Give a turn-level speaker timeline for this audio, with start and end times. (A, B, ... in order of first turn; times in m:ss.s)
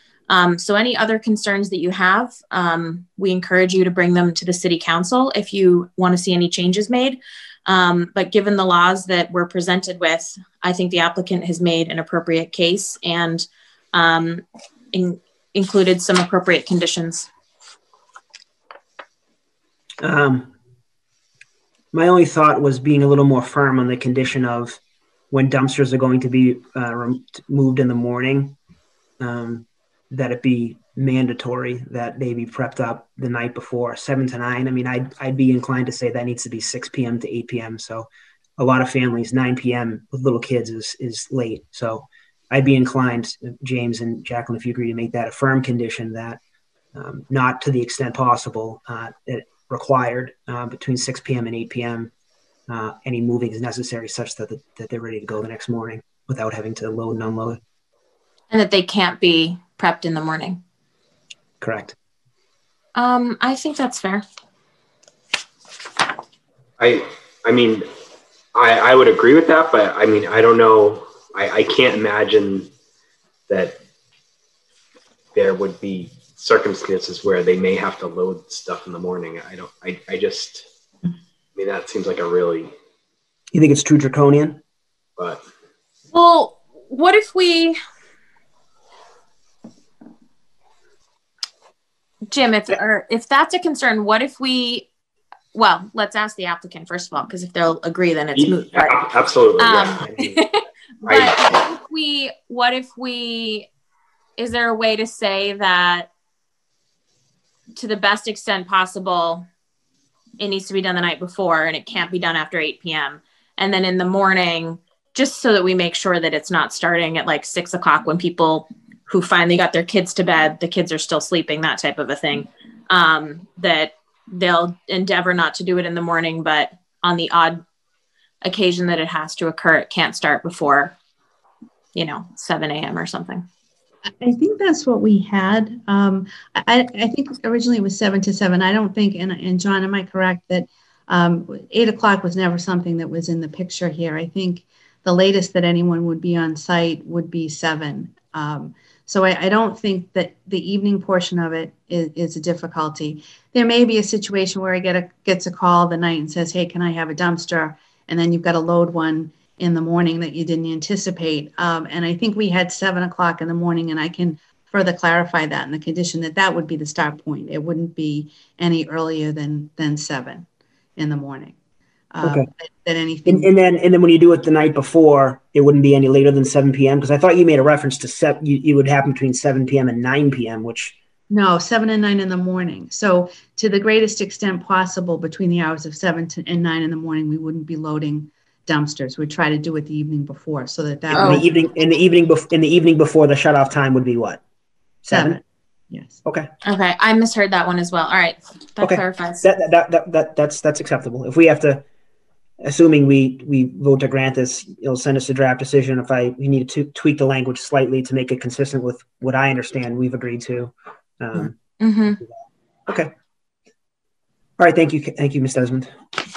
0:00.3-0:17.3 A
0:20.0-0:20.5 B
0:21.9-0:24.8 B
0:25.3-0:28.6 B
0:29.2-0:46.4 B
0:46.9-0:52.1 B
0:52.7-0:57.6 B
0:58.5-1:00.6 A
1:01.6-1:02.0 B
1:03.0-1:04.2 A
1:06.8-1:07.9 C
1:08.5-1:12.7 C
1:13.5-1:13.8 C
1:15.3-1:20.6 C
1:21.5-1:22.7 C
1:23.5-1:24.6 B
1:25.2-1:25.4 C
1:26.1-1:27.8 A
1:32.3-1:34.9 A
1:35.5-1:39.1 A
1:38.3-1:40.4 C
1:39.6-1:43.7 A
1:41.0-1:41.6 C
1:44.4-1:46.1 A
1:47.7-1:49.4 A
1:50.4-2:07.6 A
2:08.4-2:11.0 A
2:11.9-2:13.4 A
2:14.1-2:50.4 D
2:51.0-2:51.5 D
2:52.1-2:53.5 D
2:52.2-2:52.5 B
2:53.2-3:00.9 B
3:01.3-3:11.4 D
3:11.1-3:14.4 B
3:11.1-3:11.4 A
3:15.1-3:16.2 D
3:15.1-3:15.4 B
3:16.2-3:16.5 B
3:16.6-3:19.4 A
3:18.8-3:21.8 B
3:22.6-3:31.6 B
3:31.8-3:32.2 A
3:34.6-3:35.9 B